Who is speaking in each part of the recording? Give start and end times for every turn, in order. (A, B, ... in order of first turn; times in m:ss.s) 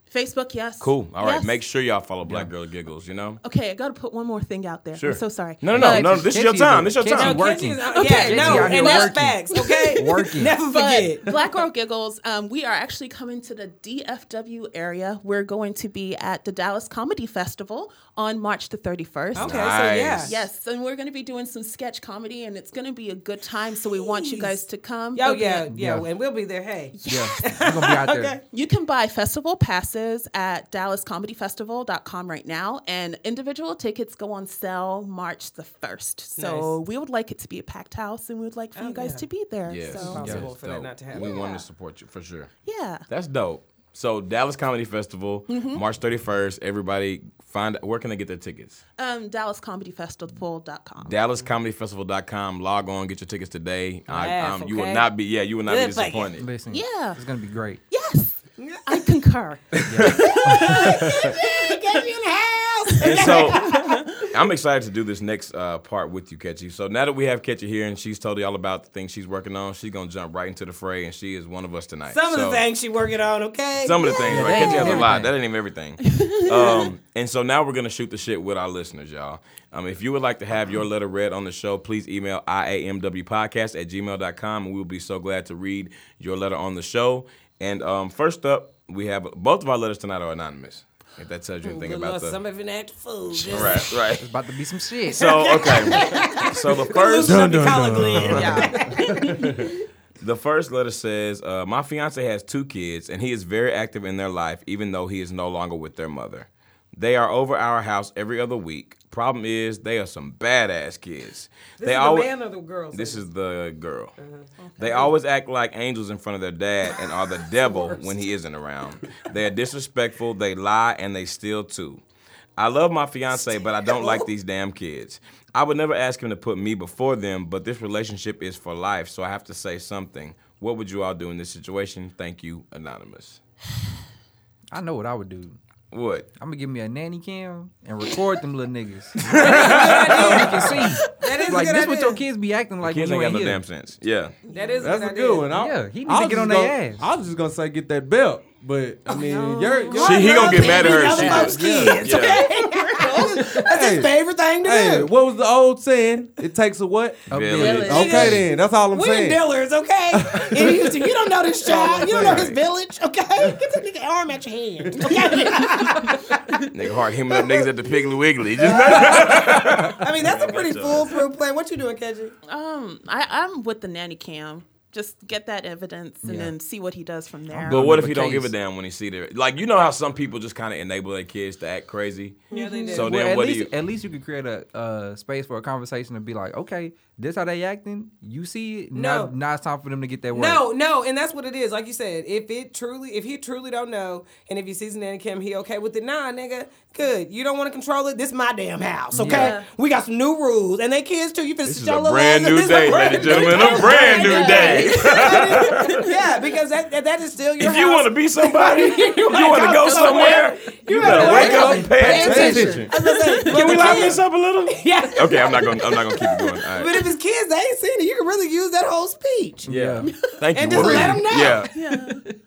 0:00.1-0:01.6 A
0:00.8-0:03.4 B
0:02.2-0:02.5 C
0:03.4-0:06.3 A
0:04.9-0:07.5 B
0:05.7-0:10.6 C
0:07.1-0:11.3 D
0:07.9-0:25.7 A
0:19.4-0:20.4 B
0:19.4-0:20.4 D
0:23.9-0:28.4 D
0:25.7-0:26.1 C
0:27.0-0:27.5 A
0:27.1-0:28.4 C
0:28.5-0:40.4 A
0:36.4-0:36.8 D
0:38.7-0:39.3 D
0:39.7-0:42.5 B
0:39.9-0:41.4 D
0:40.2-0:40.5 C
0:41.1-0:41.6 A
0:42.6-0:43.0 A
0:43.1-0:48.8 B
0:45.5-0:45.8 A
0:49.0-0:51.2 A
0:51.0-0:56.5 B
0:54.1-0:55.1 D
0:55.6-0:56.3 D
0:56.4-0:57.8 C
0:56.7-0:57.2 A
0:57.9-1:01.4 A
0:58.6-0:59.0 D
0:59.8-1:00.6 C
1:00.2-1:04.0 D
1:03.0-1:03.6 B
1:03.1-1:04.2 A
1:04.2-1:12.6 B
1:12.1-1:15.0 D
1:13.8-1:32.4 B
1:14.2-1:15.3 C
1:16.1-1:16.9 A
1:31.6-1:33.9 D
1:33.3-1:34.3 B
1:34.2-1:35.6 C
1:35.1-1:38.4 B
1:35.1-1:39.4 D
1:37.2-1:39.7 E
1:38.3-1:39.3 A
1:40.2-1:52.3 B
1:51.8-1:53.2 D
1:52.9-1:54.1 B
1:54.2-1:54.5 D
1:54.6-1:55.1 A
1:54.8-2:02.0 B
1:57.5-1:58.2 D
2:02.6-2:13.4 B
2:03.7-2:04.3 D
2:14.7-2:15.6 C
2:15.9-2:16.3 B
2:16.4-2:23.6 C
2:19.3-2:20.4 B
2:19.3-2:22.2 D
2:22.8-2:24.3 B
2:24.5-2:24.9 A
2:24.5-2:25.5 D
2:24.8-2:31.0 E
2:25.5-2:27.0 C
2:29.1-2:31.5 A
2:29.9-2:35.1 D
2:30.0-2:32.4 B
2:31.1-2:32.1 C
2:32.2-2:33.6 A
2:33.2-2:39.4 E
2:37.3-2:38.4 C
2:37.3-2:38.4 B
2:37.6-2:38.4 A
2:37.9-2:46.4 D
2:40.1-2:41.0 E
2:41.6-2:42.6 E
2:42.2-2:42.5 B
2:43.4-2:43.8 E
2:44.9-2:45.3 E
2:45.0-2:46.2 A
2:46.7-2:51.2 B
2:48.7-2:52.3 D
2:52.5-2:57.9 A
2:56.2-2:56.5 C
2:57.5-2:58.5 C
2:57.6-3:03.7 B
3:02.5-3:03.1 D
3:02.5-3:03.0 A
3:02.9-3:10.6 C
3:08.9-3:09.3 D
3:10.3-3:39.7 D
3:19.1-3:19.6 C
3:19.2-3:19.7 A
3:21.6-3:26.1 B
3:23.4-3:26.1 A
3:27.6-3:32.8 B
3:31.0-3:32.9 C
3:31.1-3:32.9 E
3:33.3-3:33.9 A
3:33.4-3:37.0 B
3:39.6-3:40.1 C
3:39.7-3:41.7 B
3:40.5-3:41.7 D
3:40.6-3:41.3 C
3:40.8-3:41.2 E
3:41.7-3:42.2 A